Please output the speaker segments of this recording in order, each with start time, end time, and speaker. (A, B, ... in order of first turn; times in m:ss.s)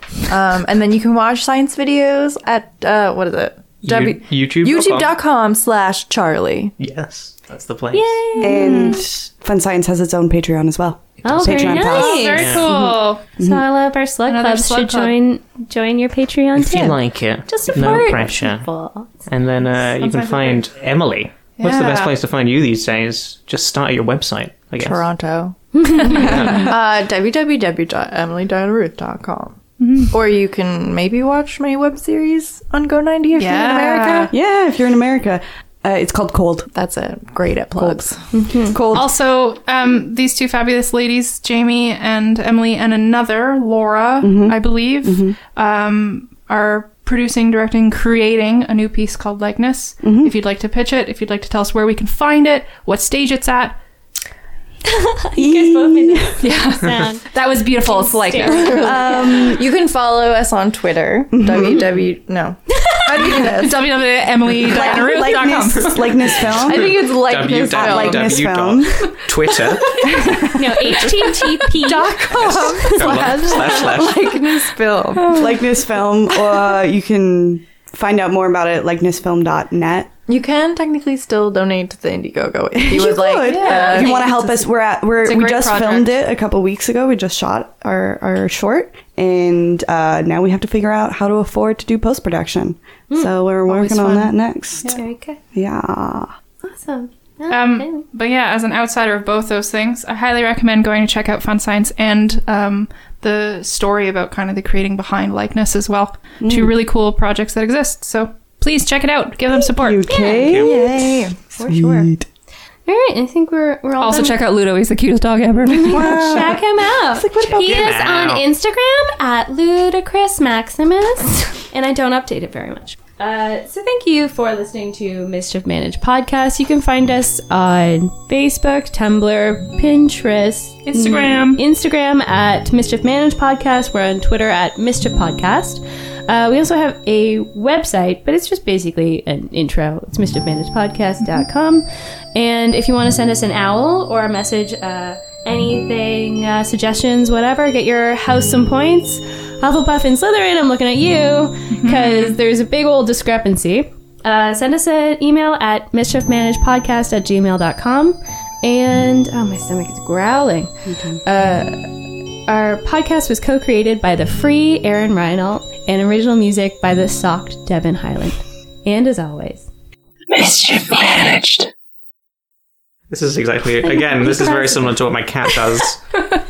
0:00.2-0:06.7 A
0:03.8-0:05.2 B
0:06.8-0:08.2 B
0:07.9-0:09.0 C
0:08.4-0:12.8 D
0:08.4-0:09.0 E
0:11.2-0:12.6 B
0:11.2-0:19.1 C
0:11.8-0:13.2 E
0:13.4-0:13.6 D
0:14.3-0:15.2 E
0:16.6-0:18.7 B
0:19.3-0:25.1 B
0:20.0-0:20.6 E
0:21.6-0:22.1 E
0:24.8-0:29.6 A
0:25.8-0:26.6 E
0:26.3-0:26.6 B
0:29.8-0:30.1 E
0:30.1-0:34.3 A
0:33.4-0:34.3 E
0:34.3-0:36.7 D
0:36.7-0:38.3 A
0:37.8-0:38.0 D
0:38.3-0:38.8 C
0:38.7-0:39.2 D
0:38.8-0:53.8 E
0:44.2-0:45.4 D
0:50.0-0:50.4 D
0:54.9-0:57.2 C
0:55.4-0:56.4 D
0:56.4-0:59.0 E
0:57.8-0:59.3 C
0:58.0-1:04.1 A
0:58.6-0:59.6 D
1:01.3-1:01.9 D
1:03.2-1:06.4 E
1:04.5-1:09.2 D
1:04.7-1:05.1 A
1:06.4-1:08.4 A
1:06.7-1:10.1 B
1:10.0-1:11.0 D
1:10.6-1:13.3 C
1:11.8-1:15.4 A
1:12.3-1:14.4 B
1:15.2-1:15.6 E
1:15.3-1:20.1 D
1:20.3-1:24.7 A
1:22.8-1:35.0 D
1:23.5-1:24.0 E
1:23.9-1:24.2 C
1:25.2-1:26.2 E
1:33.6-1:35.0 E
1:34.8-1:35.4 C
1:35.5-1:36.3 D
1:36.6-1:38.0 C
1:37.5-1:50.1 E
1:46.4-1:46.8 D
1:49.6-1:52.3 D
1:49.9-1:52.1 C
1:50.6-1:51.4 A
1:52.9-1:54.4 C
1:54.0-1:56.2 E
1:55.7-2:40.7 C
1:55.7-1:58.1 D
1:57.4-1:58.4 B
2:10.8-2:11.6 E
2:31.7-2:32.4 E
2:40.9-2:41.2 D
2:41.2-2:49.7 C
2:50.3-2:51.7 B
2:53.1-2:56.0 B
2:53.8-2:55.0 C